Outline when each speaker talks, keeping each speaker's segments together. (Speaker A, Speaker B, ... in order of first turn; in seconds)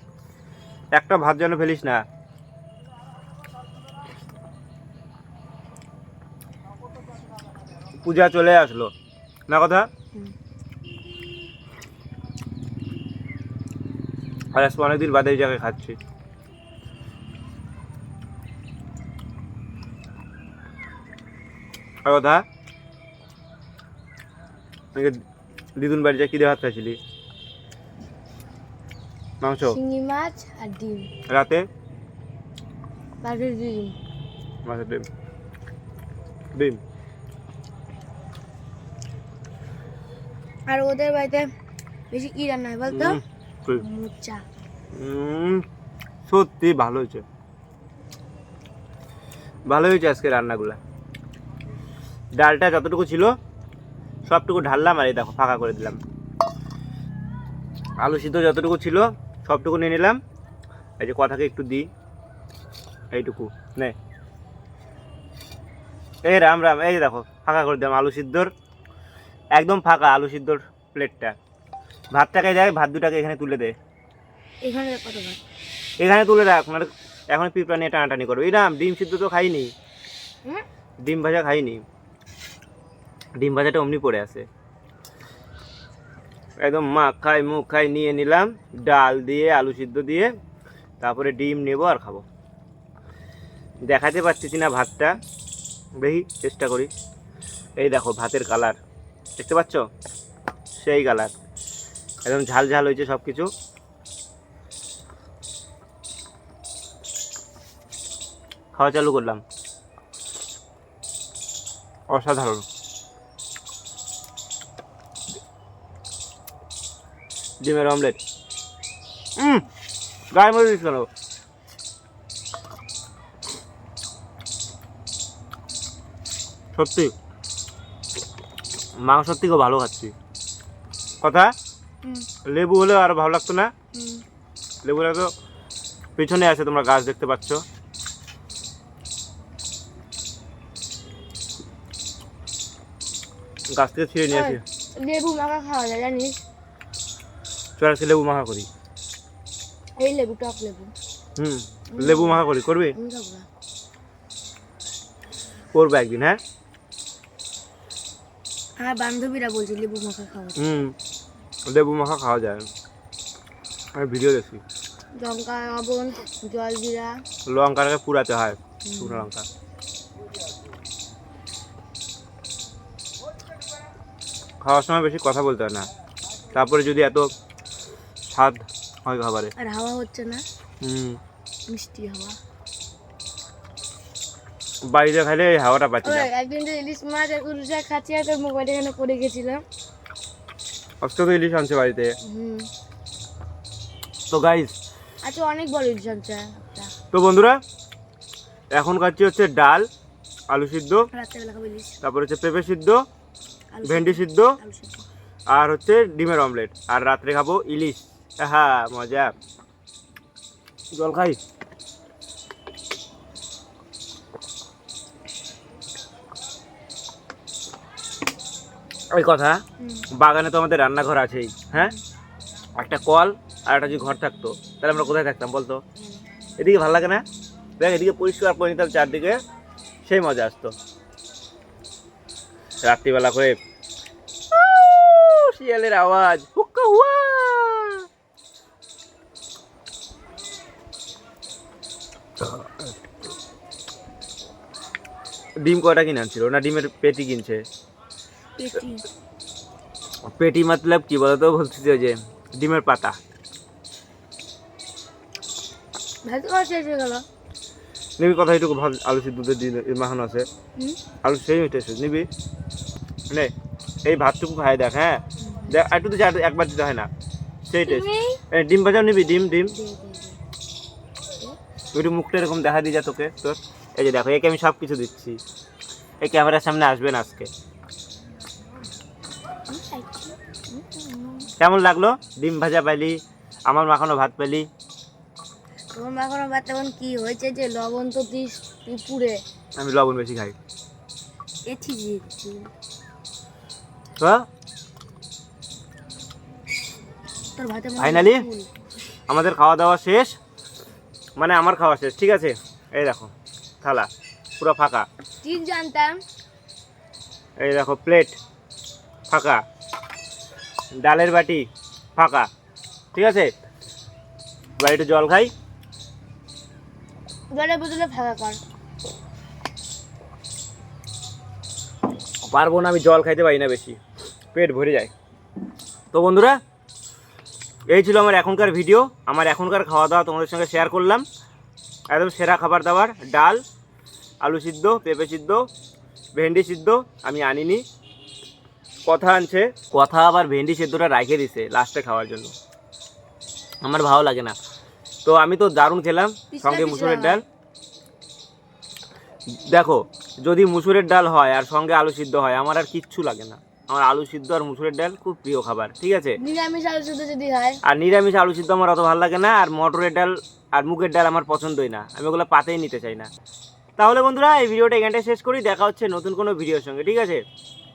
Speaker A: 0.9-2.0, 8.0-8.9, 9.5-9.9, 14.5-16.0, 22.1-22.4, 24.9-25.2, 25.8-27.0, 29.4-29.8, 31.3-31.7, 34.6-35.1, 36.5-36.8, 42.9-43.8, 44.9-45.6, 46.3-47.2, 49.7-50.8, 52.4-53.3, 54.3-56.0, 58.0-60.2, 61.0-61.9, 63.1-64.0, 66.2-68.5, 69.5-71.3, 72.1-73.8, 76.0-79.7, 81.0-81.8, 83.4-84.5, 86.6-90.3, 91.0-92.2, 93.9-95.2, 96.0-96.9, 97.8-98.8, 99.4-99.8, 100.8-101.3, 102.2-103.5, 108.7-109.4, 112.1-112.7, 117.6-118.2, 119.4-119.6, 120.3-121.1, 126.7-127.1, 129.0-130.1, 131.2-131.5, 132.4-133.7, 134.8-135.3, 136.2-137.6, 143.7-144.6, 147.8-148.7, 151.4-152.9, 155.7-156.4, 160.6-160.9, 161.7-162.7, 163.9-164.6, 167.5-169.5, 174.6-175.9, 176.5-177.3, 178.3-179.5, 180.8-181.2, 184.9-186.3, 191.0-192.1, 194.3-194.7, 197.1-197.6, 198.7-199.8, 200.5-201.0, 202.0-203.0, 203.8-204.6, 205.5-209.3, 210.9-211.4, 219.1-221.9, 222.8-225.8, 226.6-227.2, 227.8-229.4, 230.0-230.7, 232.8-233.6, 234.5-238.1, 242.4-242.7, 245.6-247.6, 250.3-253.2, 258.2-260.5, 261.2-262.3, 264.1-267.1, 267.7-269.7, 271.9-275.4, 276.2-277.5, 281.6-284.6, 289.8-290.5, 294.2-294.4, 298.0-298.4, 299.3-300.3, 301.4-305.1, 307.6-308.4, 309.3-309.6, 311.0-312.5, 313.1-313.5, 314.8-315.5, 322.4-324.0, 324.5-325.1, 326.1-326.6, 327.9-331.2, 332.1-333.6, 334.4-335.6, 336.3-337.8, 339.1-342.5, 343.8-344.6, 345.2-347.4, 349.5-356.4, 357.8-363.3, 364.0-367.4
Speaker B: 29.6-31.1, 33.2-34.0, 40.7-41.5, 42.1-43.2, 43.7-44.4, 74.6-75.4, 133.9-134.2, 144.3-146.4, 150.0-150.9, 151.9-153.5, 158.8-160.6, 165.2-167.2, 168.9-169.3, 179.6-180.4, 181.7-182.4, 186.0-189.6, 192.2-192.7, 195.2-196.9, 201.1-202.0, 203.7-205.1, 219.8-220.1, 248.6-249.0, 256.2-257.2, 265.4-265.9, 267.8-268.4, 269.7-270.4, 279.7-281.5, 285.9-289.4, 291.6-292.7, 297.6-298.7, 305.4-306.2, 317.5-318.6, 346.5-347.4, 356.4-357.8